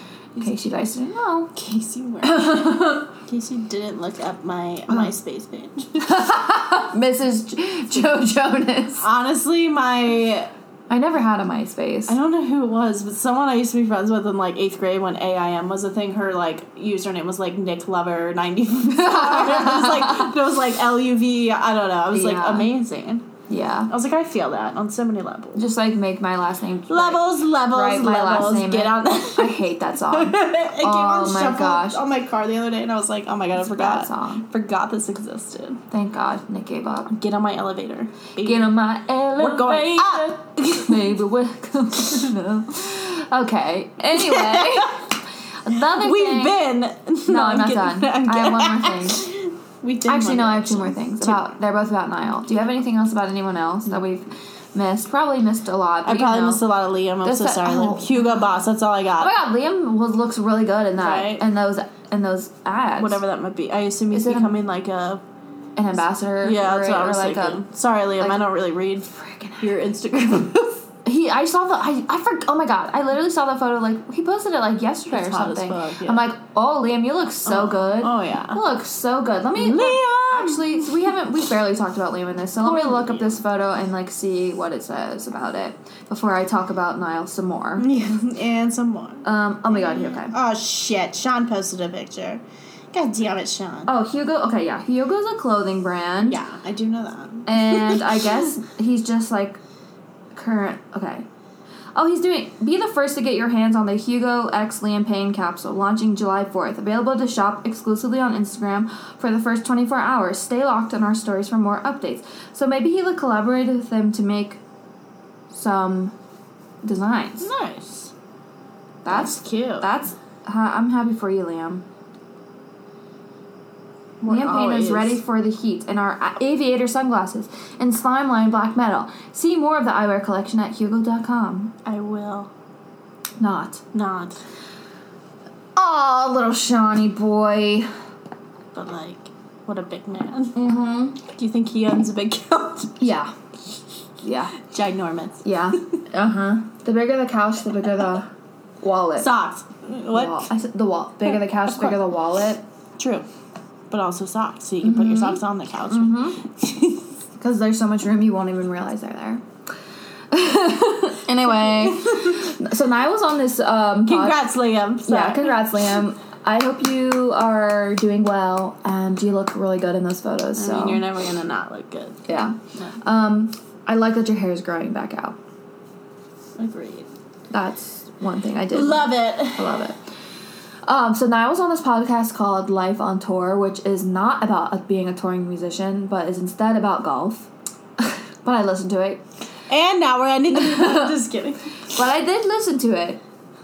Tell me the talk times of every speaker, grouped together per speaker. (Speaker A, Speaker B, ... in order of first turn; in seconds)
Speaker A: 0.4-1.5, 2.2-3.1, 6.0-9.0, 10.9-12.2, 18.9-20.4, 22.1-22.7, 23.5-23.9, 25.6-32.0, 33.5-34.5, 35.9-37.1, 38.4-46.6, 47.3-49.3, 50.1-56.6, 57.2-58.3, 59.2-63.2, 64.1-64.6, 65.8-67.6, 68.2-68.5, 69.1-69.7, 71.0-87.9, 89.2-90.3, 93.9-96.4, 97.5-99.6, 100.3-101.3, 102.0-114.6, 115.5-116.2, 116.8-117.5, 119.0-121.8, 124.3-131.7, 133.4-133.8, 135.8-137.9, 140.6-141.2, 143.0-143.3, 144.2-144.6, 145.4-148.3, 148.8-149.3, 150.1-152.6, 154.8-156.4, 157.4-159.4, 160.3-164.5, 165.1-171.0, 172.3-175.4, 177.5-180.0, 180.9-187.5, 188.0-189.2, 190.5-191.2, 191.9-193.2
Speaker B: 1.6-6.2, 9.0-10.5, 12.1-23.3, 23.9-25.6, 26.9-35.8, 37.1-38.8, 39.4-41.0, 44.2-45.0, 45.9-51.5, 56.0-59.3, 61.0-61.5, 63.0-65.2, 66.4-70.8, 75.1-76.3, 77.5-78.6, 79.6-81.1, 82.6-83.3, 87.8-92.4, 92.9-93.9, 96.3-98.2, 117.4-118.1, 119.1-119.9, 124.2-125.2, 131.8-132.5, 133.9-134.4, 138.7-140.6, 141.2-143.0, 144.6-146.0, 149.2-150.4, 153.0-153.3, 153.9-157.1, 161.7-162.5, 164.1-165.6, 170.6-173.0, 176.6-177.1, 178.7-179.7, 189.7-191.7